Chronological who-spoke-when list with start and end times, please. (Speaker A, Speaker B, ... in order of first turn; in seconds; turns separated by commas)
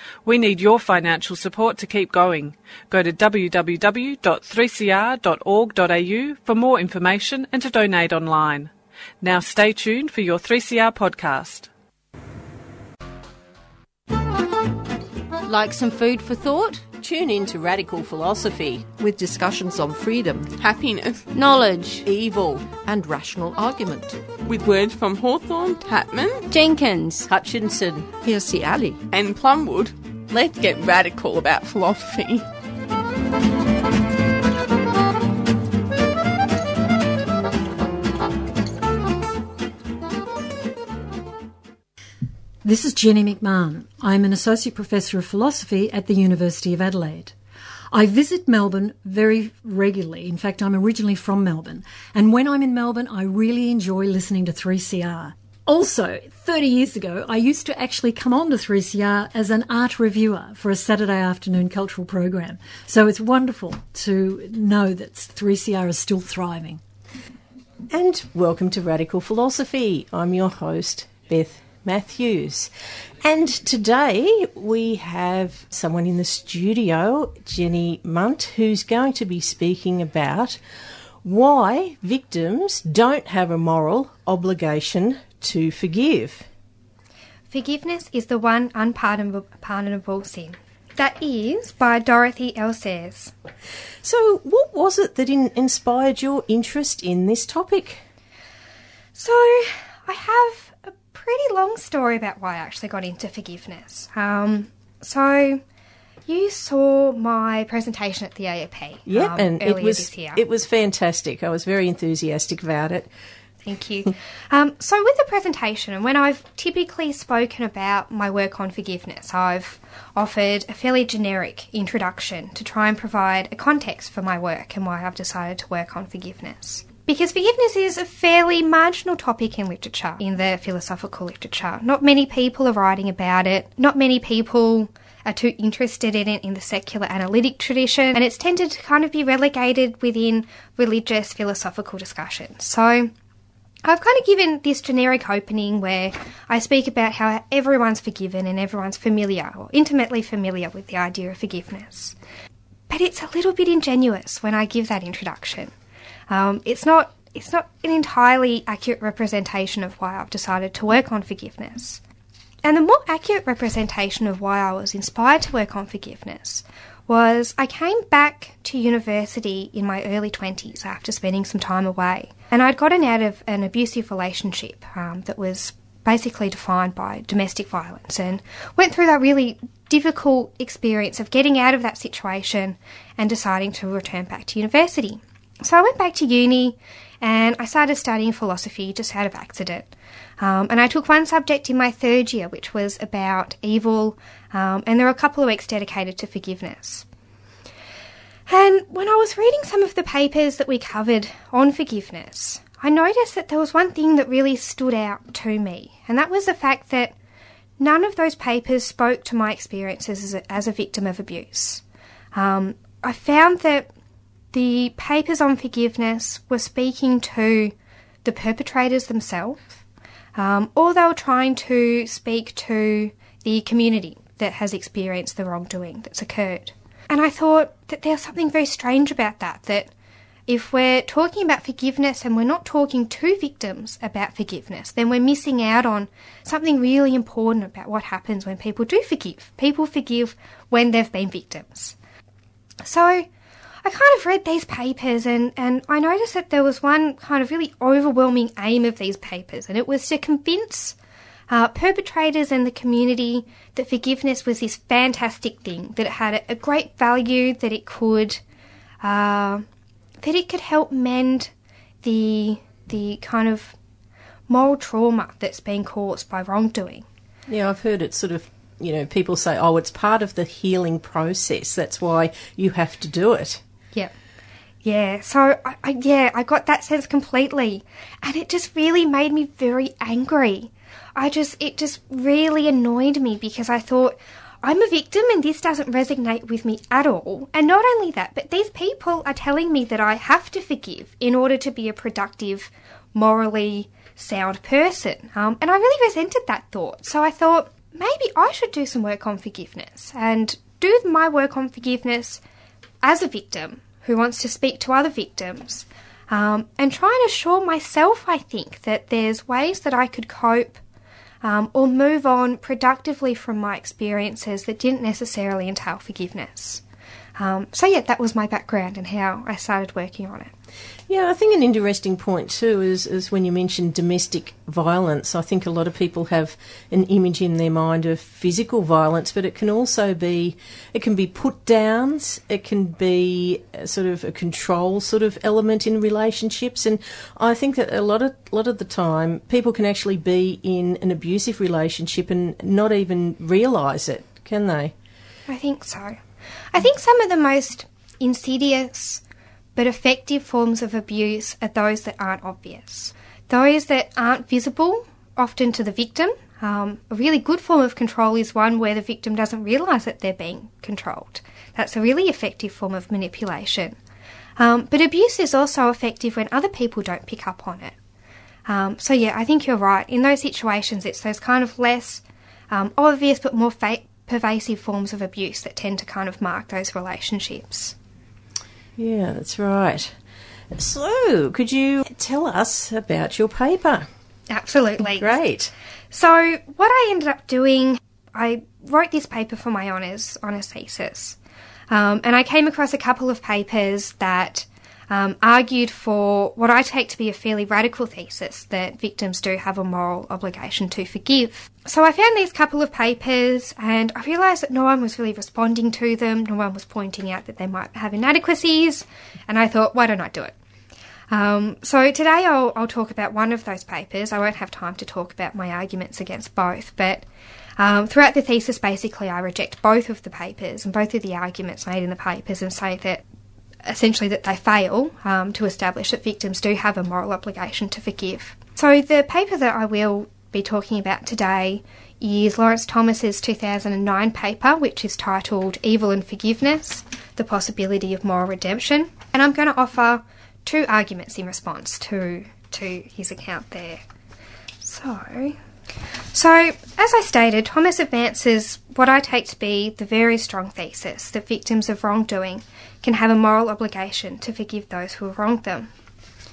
Speaker A: 0.2-11.7, Speaker B: 15.4-16.9, Speaker C: 17.0-18.9, Speaker D: 19.0-20.5, Speaker E: 20.6-21.3, Speaker B: 21.3-22.1, Speaker C: 22.1-22.7, Speaker D: 22.8-24.2, Speaker E: 24.4-26.5, Speaker B: 26.5-27.3, Speaker C: 27.3-28.1, Speaker D: 28.2-29.0, Speaker E: 29.1-32.5, Speaker F: 42.6-47.4, Speaker F: 47.9-66.8, Speaker C: 67.9-72.7, Speaker C: 73.2-80.6, Speaker C: 81.2-86.5, Speaker G: 87.5-93.3, Speaker C: 94.0-98.0, Speaker G: 99.2-105.6, Speaker G: 106.3-110.4, Speaker C: 109.1-113.1, Speaker G: 113.6-143.1, Speaker G: 143.8-152.2, Speaker G: 152.9-155.7, Speaker G: 156.3-162.0, Speaker G: 162.6-197.1, Speaker G: 198.5-207.2, Speaker G: 207.8-211.8, Speaker G: 212.3-213.9, Speaker G: 214.5-217.7, Speaker G: 218.2-219.6, Speaker G: 220.4-229.9, Speaker G: 230.5-242.0, Speaker G: 242.8-243.3, Speaker G: 243.8-251.0, Speaker G: 251.5-258.4, Speaker G: 259.0-259.6, Speaker G: 260.2-261.5, Speaker G: 262.0-263.8, Speaker G: 264.5-267.1, Speaker C: 267.5-273.6, Speaker G: 274.8-302.4, Speaker G: 303.0-310.8, Speaker G: 311.4-316.8, Speaker G: 317.4-320.5, Speaker C: 321.1-344.9, Speaker G: 345.5-346.2, Speaker G: 346.7-349.2, Speaker G: 349.8-364.0, Speaker G: 364.6-367.9, Speaker G: 368.7-377.9, Speaker C: 379.0-380.1, Speaker C: 380.7-384.1, Speaker G: 384.5-385.4, Speaker C: 385.1-385.7, Speaker G: 386.1-391.4, Speaker G: 391.9-410.5, Speaker G: 411.3-417.2, Speaker G: 417.8-423.2, Speaker G: 423.9-444.0, Speaker G: 444.8-445.6, Speaker G: 446.3-455.9